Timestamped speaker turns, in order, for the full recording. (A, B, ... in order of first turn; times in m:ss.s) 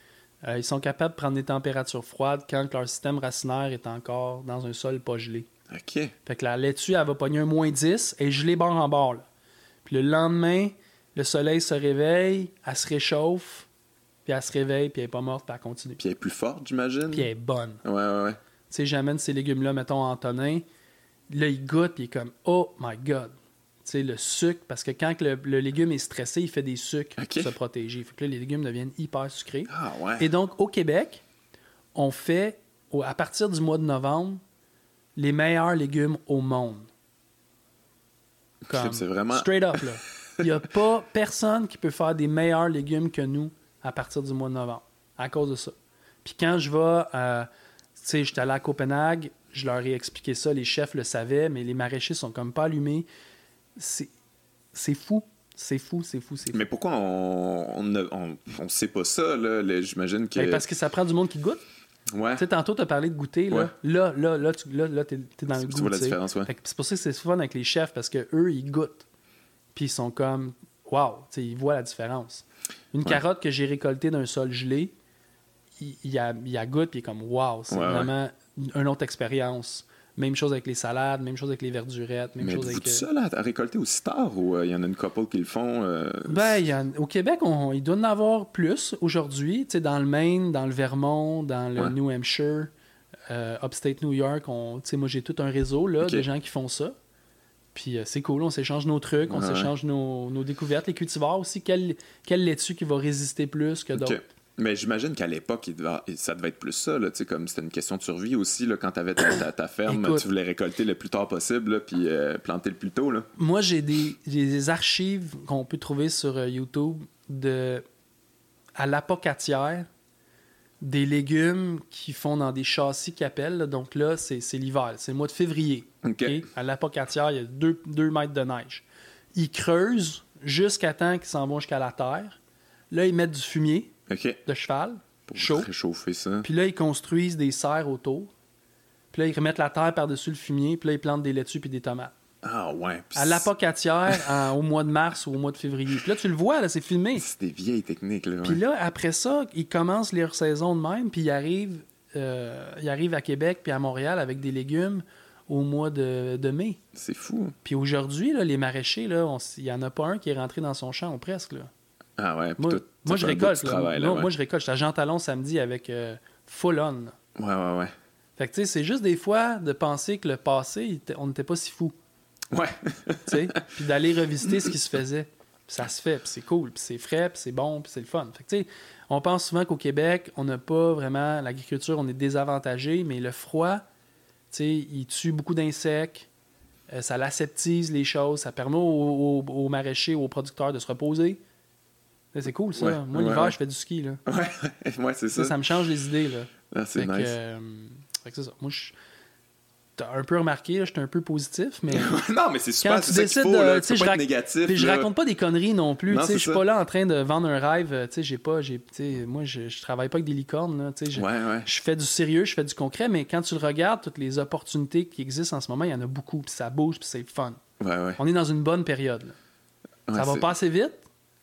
0:00.4-0:05.5 A
0:05.7-0:06.1 B
0:06.2-0:09.2 A
0:09.8-0:13.7 A
0:14.2-0:16.0 A
0:16.0-0:17.3 B
0:17.1-0:17.8 A
0:17.8-0:18.4 B
0:18.7-0:20.6 A
0:21.3-0:31.2 A
0:27.2-0:27.5 B
0:29.7-0:30.3 B
0:31.9-0:34.4 A
0:35.2-0:36.9 A
0:38.7-0:39.8 B
0:38.7-0:53.1 A
0:53.8-0:54.1 A
0:54.7-0:56.6 A
0:56.5-1:00.6 B
1:00.3-1:01.6 A
1:02.1-1:02.4 B
1:02.4-1:09.0 A
1:05.5-1:06.5 B
1:09.7-1:14.9 A
1:15.8-1:23.0 A
1:17.7-1:18.1 B
1:22.4-1:26.6 B
1:26.3-1:32.7 A
1:33.3-1:36.9 A
1:37.7-1:44.2 A
1:39.3-1:39.7 B
1:43.9-1:53.3 B
1:49.9-1:50.2 A
1:53.4-1:57.8 A
1:58.8-1:59.9 A
2:00.8-2:12.4 A
2:06.0-2:06.4 B
2:12.9-2:13.9 A
2:14.1-2:14.4 B
2:14.4-2:15.7 A
2:15.3-2:16.5 B
2:16.4-2:18.3 A
2:19.1-2:22.1 A
2:22.4-2:23.5 B
2:23.1-2:27.2 A
2:27.2-2:28.6 B
2:28.4-2:36.8 A
2:36.9-2:37.5 B
2:37.6-2:41.7 A
2:42.2-2:44.3 B
2:42.6-2:47.1 A
2:47.4-2:47.9 B
2:48.4-2:51.9 A
2:52.5-2:53.7 B
2:53.2-3:03.8 A
3:04.5-3:06.3 A
3:06.9-3:11.4 A
3:12.3-3:14.2 A
3:12.8-3:13.6 B
3:14.2-3:15.7 B
3:15.3-3:18.9 A
3:16.7-3:17.3 B
3:20.0-3:22.2 A
3:21.9-3:25.1 B
3:22.8-3:37.6 A
3:26.1-3:26.6 B
3:31.1-3:31.7 B
3:37.8-3:38.2 B
3:38.2-3:39.4 A
3:40.1-3:40.5 B
3:40.1-3:41.0 A